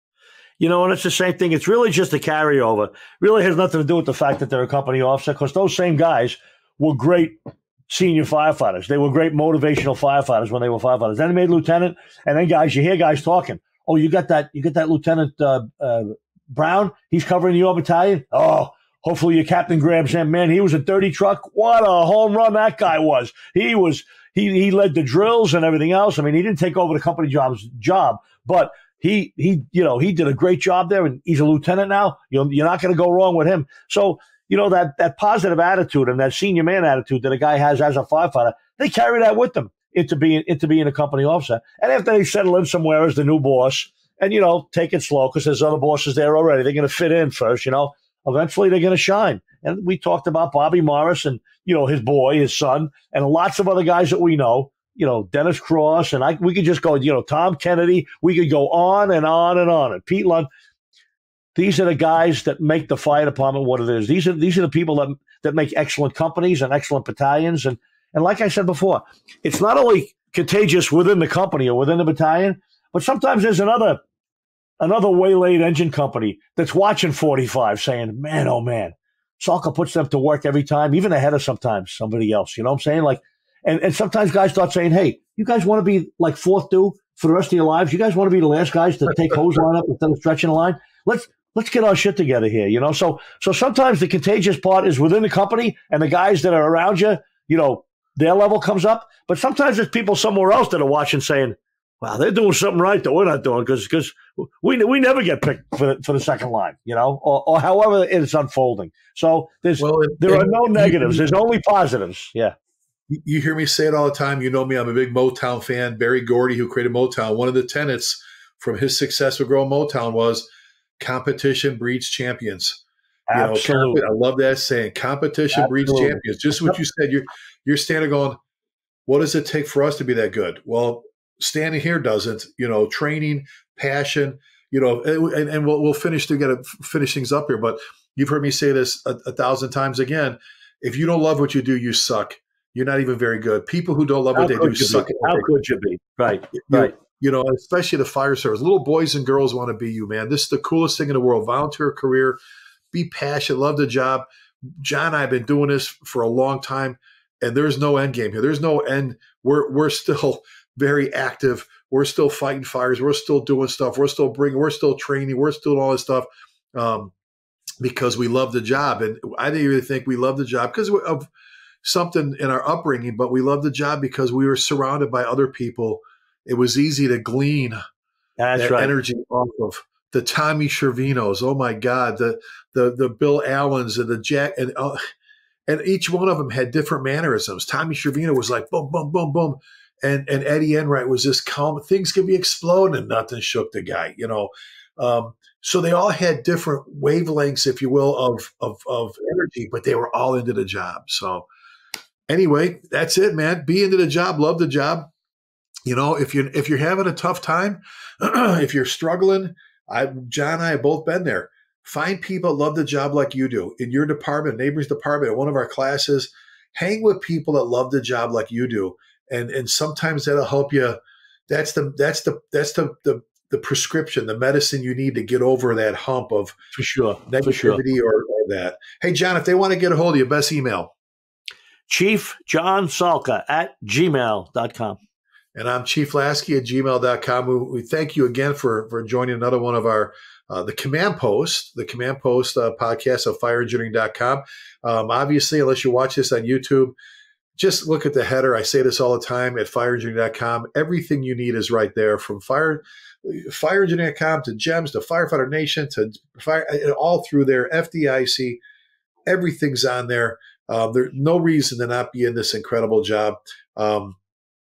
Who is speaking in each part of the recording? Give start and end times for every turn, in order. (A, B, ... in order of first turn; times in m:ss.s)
0:00.6-1:00.5 A
1:01.5-1:14.0 A
1:14.8-1:52.5 A
1:49.8-1:51.3 B
1:53.1-2:00.5 B
2:01.0-2:02.8 B
2:03.3-2:04.0 A
2:03.3-2:08.4 B
2:05.5-2:06.8 A
2:09.1-2:25.5 B
2:24.3-2:27.0 A
2:26.6-2:32.4 B
2:32.9-2:34.2 B
2:34.8-2:47.1 B
2:47.8-2:51.3 B
2:51.8-2:57.8 B
2:58.4-2:58.9 A
2:58.6-3:05.0 B
3:05.7-3:21.5 B
3:22.3-3:25.1 B
3:25.8-3:41.0 B
3:41.5-3:46.6 B
3:46.7-3:47.8 A
3:47.3-3:50.9 B
3:51.9-3:55.0 A
3:55.5-4:06.9 B
4:07.6-4:18.6 B
4:19.2-4:24.2 B